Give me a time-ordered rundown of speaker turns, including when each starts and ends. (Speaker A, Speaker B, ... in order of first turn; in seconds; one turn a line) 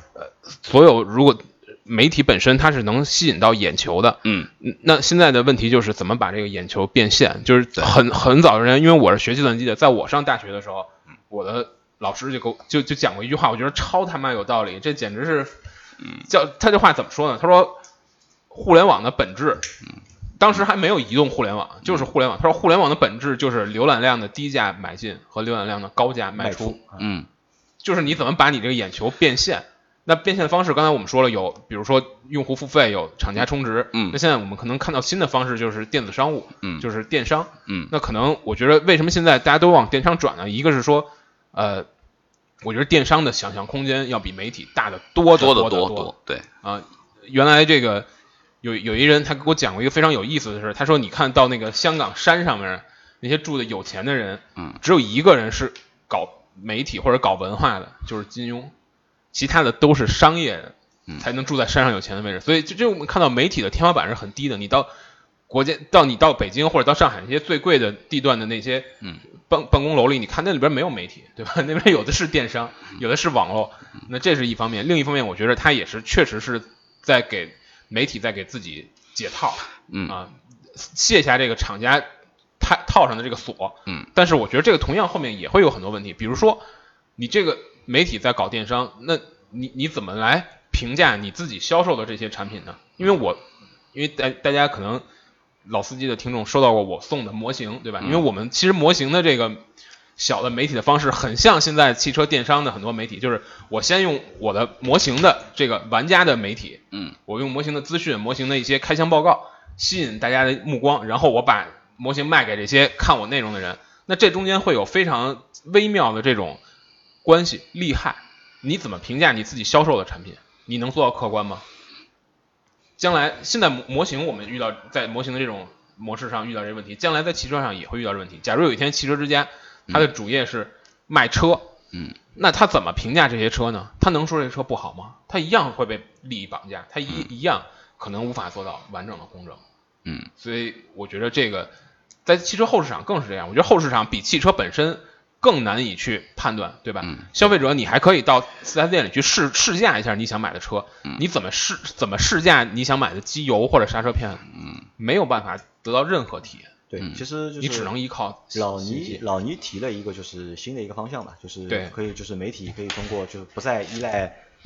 Speaker A: 0.2-15.6
Speaker B: 4.2-4.5
Speaker A: 16.3-17.8
Speaker A: 18.5-19.7
Speaker A: 20.4-26.8
Speaker C: 26.4-27.1
Speaker B: 27.0-27.3
Speaker A: 27.8-41.9
Speaker B: 33.9-34.2
Speaker B: 37.7-37.9
Speaker A: 42.6-46.1
Speaker B: 45.4-46.5
Speaker A: 46.6-48.1
Speaker A: 48.6-58.7
Speaker A: 59.3-64.9
Speaker A: 65.5-82.1
Speaker B: 79.9-80.2
Speaker A: 82.6-86.6
Speaker A: 87.2-95.0
Speaker A: 95.7-99.6
Speaker B: 98.0-98.3
Speaker A: 100.2-116.6
Speaker A: 117.2-121.6
Speaker A: 123.0-131.7
Speaker A: 132.4-139.6
Speaker B: 140.1-140.3
Speaker A: 140.4-141.7
Speaker A: 142.3-154.4
Speaker B: 147.0-147.3
Speaker B: 154.5-154.9
Speaker A: 155.0-156.7
Speaker C: 156.9-157.9
Speaker A: 157.6-159.2
Speaker C: 158.5-164.4
Speaker A: 161.7-161.9